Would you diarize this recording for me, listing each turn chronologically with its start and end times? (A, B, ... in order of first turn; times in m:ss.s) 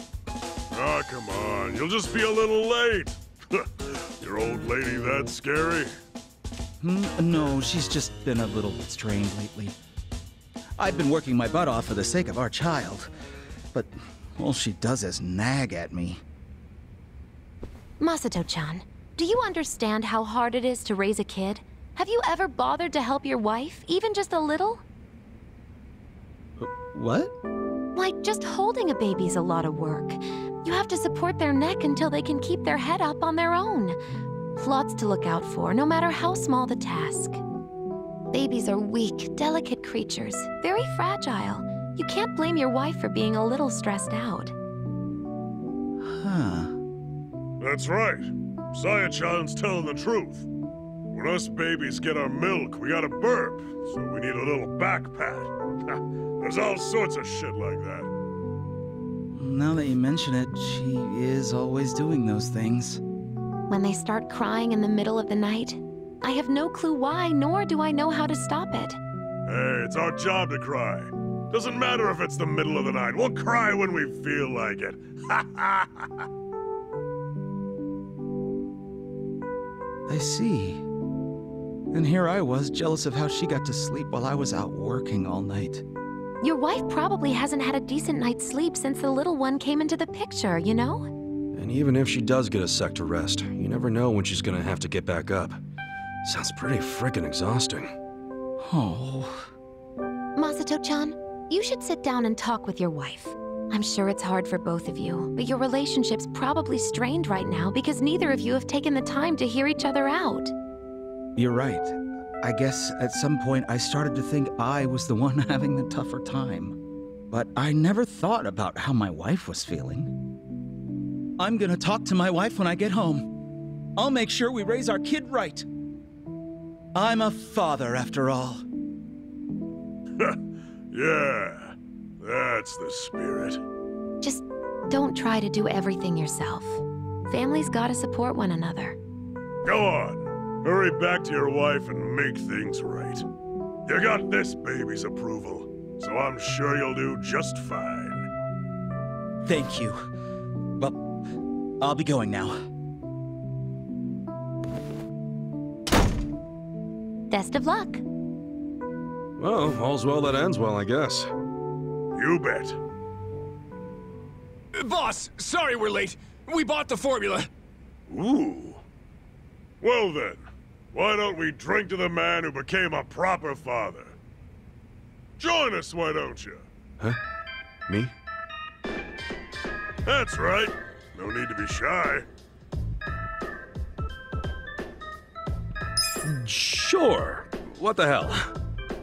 0:00.7-0:05.9 A
0:06.8-0:09.8 B
0:10.8-0:13.1 B
0:13.7-0:16.2 B
0:18.0-0:24.8 C
0:26.6-0:27.3 B
0:27.9-0:34.0 C
0:34.6-0:37.4 C
0:38.3-0:44.5 C
0:46.0-0:46.7 B
0:47.6-0:50.5 A
0:51.1-0:58.1 A
0:59.3-1:03.0 B
1:03.7-1:09.0 C
1:09.4-1:16.2 A
1:20.1-1:20.8 B
1:21.9-1:25.8 B
1:26.4-1:31.1 C
1:31.5-1:35.6 D
1:36.2-1:37.9 D
1:38.6-1:39.5 B
1:40.4-1:50.5 C
1:51.4-1:56.8 B
1:57.3-2:00.1 B
2:01.4-2:03.3 B
2:04.0-2:05.6 B
2:06.9-2:08.6 B
2:10.9-2:13.6 A
2:14.2-2:19.0 C
2:19.6-2:23.2 A
2:23.8-2:28.3 A
2:29.4-2:30.0 B
2:31.8-2:32.6 B
2:37.3-2:38.0 C
2:39.4-2:41.3 D
2:42.1-2:42.8 A
2:44.7-2:47.5 E
2:48.1-2:48.8 A
2:49.8-2:54.2 A
2:55.4-2:56.7 A
2:57.9-2:58.1 D
3:00.0-3:02.2 A
3:06.2-3:08.5 D